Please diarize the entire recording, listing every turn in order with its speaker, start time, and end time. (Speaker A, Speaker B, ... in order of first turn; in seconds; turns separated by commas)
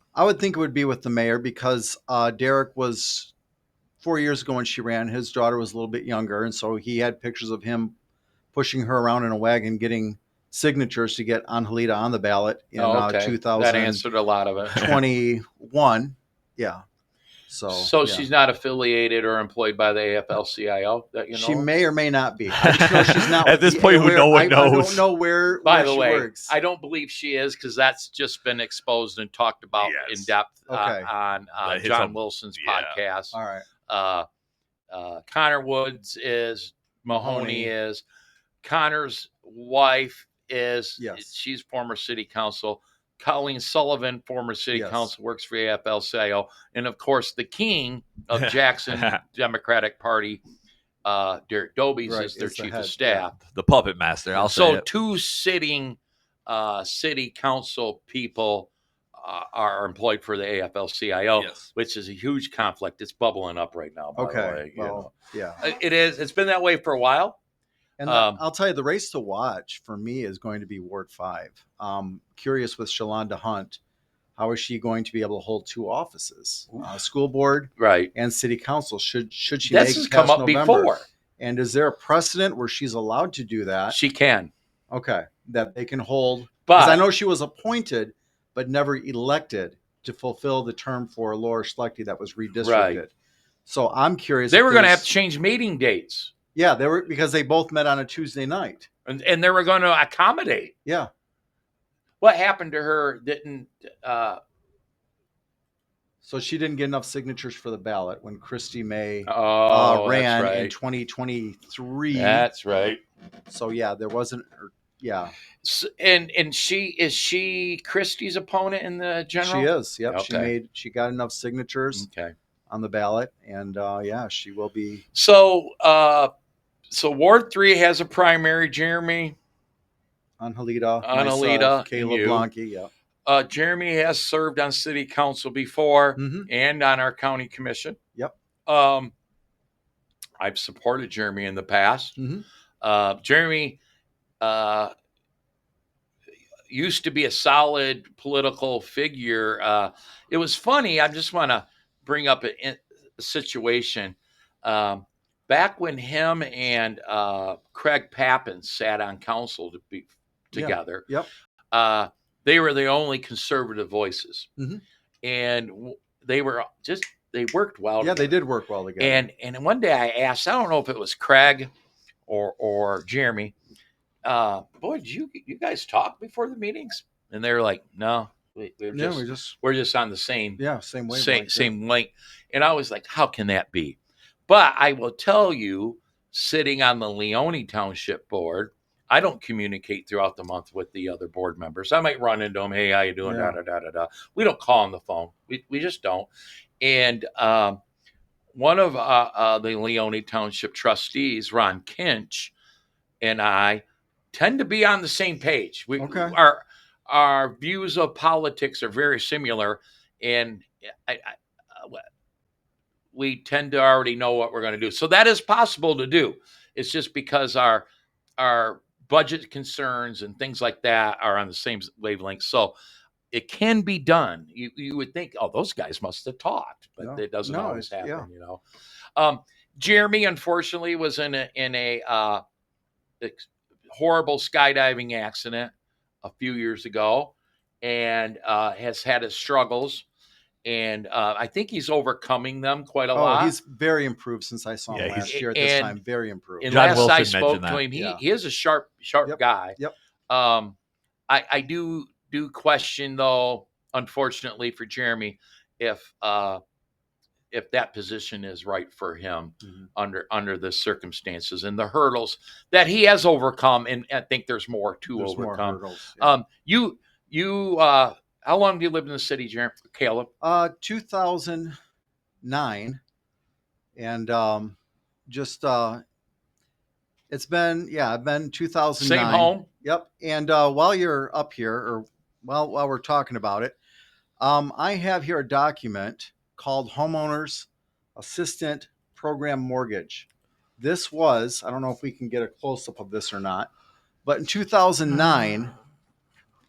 Speaker A: 0.1-3.3, Speaker A: 4.0-7.9, Speaker A: 8.5-14.0, Speaker B: 12.8-14.8, Speaker A: 14.7-16.8, Speaker A: 17.5-18.3, Speaker B: 17.7-21.7, Speaker A: 21.3-26.5, Speaker C: 22.6-25.0, Speaker B: 25.6-33.4, Speaker C: 29.8-30.3, Speaker A: 30.7-31.1, Speaker C: 31.6-33.0, Speaker A: 33.3-33.6, Speaker B: 33.9-34.3, Speaker B: 34.9-38.0, Speaker A: 37.1-37.7, Speaker B: 38.6-50.4, Speaker A: 41.0-41.3, Speaker A: 44.7-45.1, Speaker C: 48.3-49.2, Speaker B: 51.0-53.4, Speaker A: 52.0-53.3, Speaker C: 53.4-54.9, Speaker B: 54.4-67.4, Speaker C: 61.4-61.7, Speaker A: 64.2-65.6, Speaker A: 68.0-73.8, Speaker B: 68.0-68.4, Speaker A: 74.4-84.0, Speaker B: 77.8-78.1, Speaker B: 79.6-81.1, Speaker B: 83.9-84.5, Speaker A: 84.9-93.1, Speaker B: 86.7-87.0, Speaker B: 92.6-93.0, Speaker A: 93.7-95.1, Speaker B: 94.5-96.3, Speaker A: 96.5-98.9, Speaker B: 99.0-100.7, Speaker B: 102.2-104.4, Speaker A: 106.2-112.5, Speaker B: 109.3-110.7, Speaker B: 112.1-113.0, Speaker A: 113.5-115.3, Speaker B: 115.6-120.5, Speaker A: 119.4-122.0, Speaker B: 121.9-122.3, Speaker A: 122.7-125.0, Speaker B: 125.1-126.3, Speaker B: 126.9-129.3, Speaker A: 130.4-132.9, Speaker B: 131.0-132.5, Speaker B: 133.2-138.0, Speaker A: 136.2-136.5, Speaker B: 138.7-139.1, Speaker B: 140.4-142.2, Speaker A: 142.2-142.4, Speaker B: 142.8-143.8, Speaker B: 144.4-144.9, Speaker B: 146.7-161.1, Speaker A: 160.5-161.3, Speaker B: 161.7-164.5, Speaker A: 164.6-164.8, Speaker B: 165.2-168.3, Speaker A: 168.0-169.2, Speaker B: 169.0-171.7, Speaker B: 172.3-173.5, Speaker B: 174.2-184.0, Speaker A: 178.9-179.6, Speaker A: 180.6-181.7, Speaker B: 184.5-196.3, Speaker A: 193.2-193.6, Speaker B: 196.8-197.8, Speaker B: 198.5-202.5, Speaker B: 203.2-212.0, Speaker A: 206.0-206.4, Speaker B: 213.1-217.8, Speaker B: 218.4-222.7, Speaker B: 223.3-228.6, Speaker A: 227.0-228.3, Speaker B: 229.2-232.4, Speaker B: 233.2-235.7, Speaker B: 236.2-240.1, Speaker B: 240.6-243.5, Speaker A: 243.1-247.0, Speaker C: 244.9-245.3, Speaker B: 245.3-246.0, Speaker B: 246.6-249.8, Speaker C: 246.6-247.9, Speaker A: 247.9-248.2, Speaker A: 249.2-249.9, Speaker B: 250.3-250.8, Speaker B: 251.3-256.6, Speaker B: 257.5-270.3, Speaker A: 259.6-259.9, Speaker A: 265.1-266.3, Speaker A: 270.4-271.7, Speaker A: 272.4-273.0, Speaker A: 273.9-276.0, Speaker A: 277.3-283.8, Speaker B: 279.0-279.7, Speaker A: 284.4-290.3, Speaker A: 290.8-293.7, Speaker A: 294.2-295.7